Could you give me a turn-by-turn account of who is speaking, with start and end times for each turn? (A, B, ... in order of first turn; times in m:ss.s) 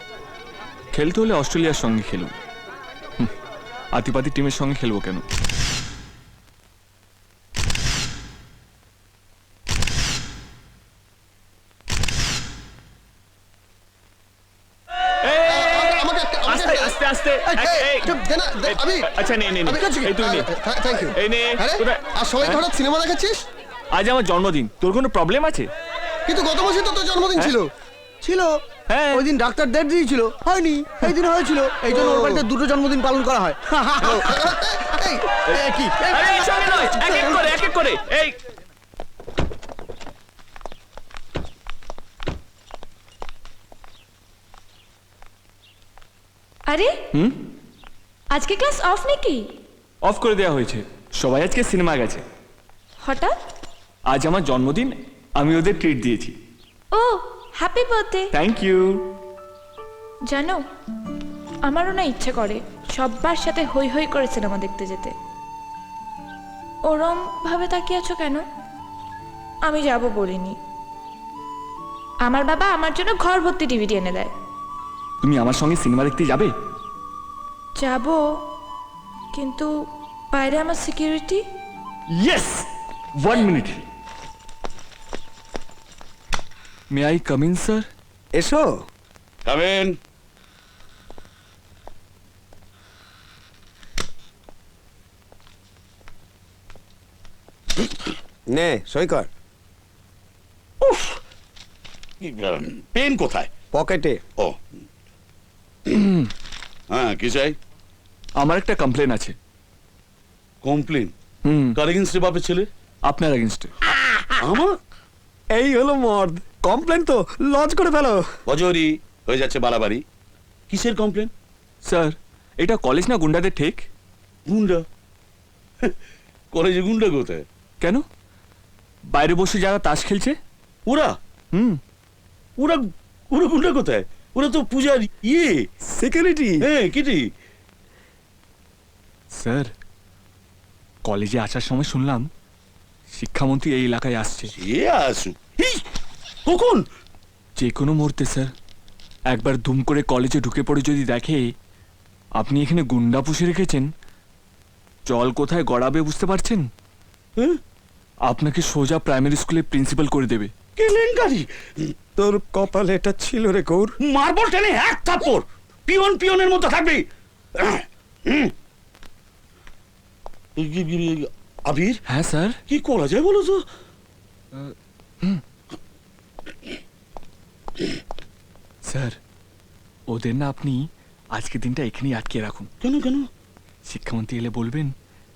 0:00.9-0:02.3 A
0:04.0-0:05.2 A
0:15.2-0:22.7 A
0:15.5-0:23.4 B
0:23.9-0:25.7 A
0:26.3-0:27.7 B
0:28.2-0:34.2 C
0:28.9-0:29.3 A
0:31.9-0:32.5 B
0:34.1-0:35.2 B
0:35.4-0:38.4 A
0:35.5-0:36.9 C
0:37.0-0:37.4 B
0:46.7-0:47.0 D
0:47.1-0:47.4 A
0:48.3-0:49.4 D
0:50.1-0:52.2 A
0:53.0-0:53.3 D
0:54.1-0:56.4 A
0:56.9-0:58.3 D
0:58.3-0:59.0 A
1:00.3-1:00.6 D
1:01.7-1:05.1 D
1:06.9-1:08.4 D
1:09.6-1:10.6 D
1:12.3-1:14.3 D
1:15.2-1:16.5 A
1:17.8-1:18.2 D
1:19.3-1:19.7 D
1:20.3-1:21.4 D
1:22.2-1:22.7 A
1:23.2-1:23.8 A
1:26.9-1:27.9 A
1:28.3-1:28.8 C
1:29.5-1:30.0 E
1:38.5-1:39.3 C
1:42.2-1:43.5 E
1:43.7-1:44.2 C
1:45.9-1:46.3 A
1:46.9-1:47.6 E
1:48.4-1:49.4 A
1:50.6-1:51.1 E
1:51.4-1:51.8 A
1:51.8-1:52.7 E
1:53.1-1:53.7 A
1:54.4-1:54.8 E
1:55.5-1:58.3 C
1:58.5-2:00.0 E
2:00.7-2:01.3 E
2:01.9-2:03.9 A
2:04.5-2:04.8 E
2:06.5-2:07.4 E
2:09.1-2:10.4 A
2:10.9-2:11.1 E
2:11.5-2:11.8 A
2:13.3-2:15.6 E
2:16.0-2:16.6 C
2:16.6-2:17.2 E
2:19.4-2:19.7 A
2:21.1-2:22.3 A
2:23.2-2:24.5 A
2:24.6-2:25.8 E
2:26.5-2:26.8 E
2:27.6-2:28.5 A
2:29.3-2:31.4 A
2:32.4-2:33.9 A
2:35.1-2:36.7 A
2:38.3-2:40.5 A
2:40.8-2:41.9 E
2:42.2-2:43.9 C
2:44.0-2:47.0 E
2:47.6-2:48.5 E
2:50.6-2:52.0 E
2:52.1-2:52.6 A
2:52.7-2:53.6 E
2:54.6-2:55.4 A
2:58.9-2:59.2 A
3:00.1-3:02.7 A
3:02.8-3:03.3 E
3:03.9-3:04.9 A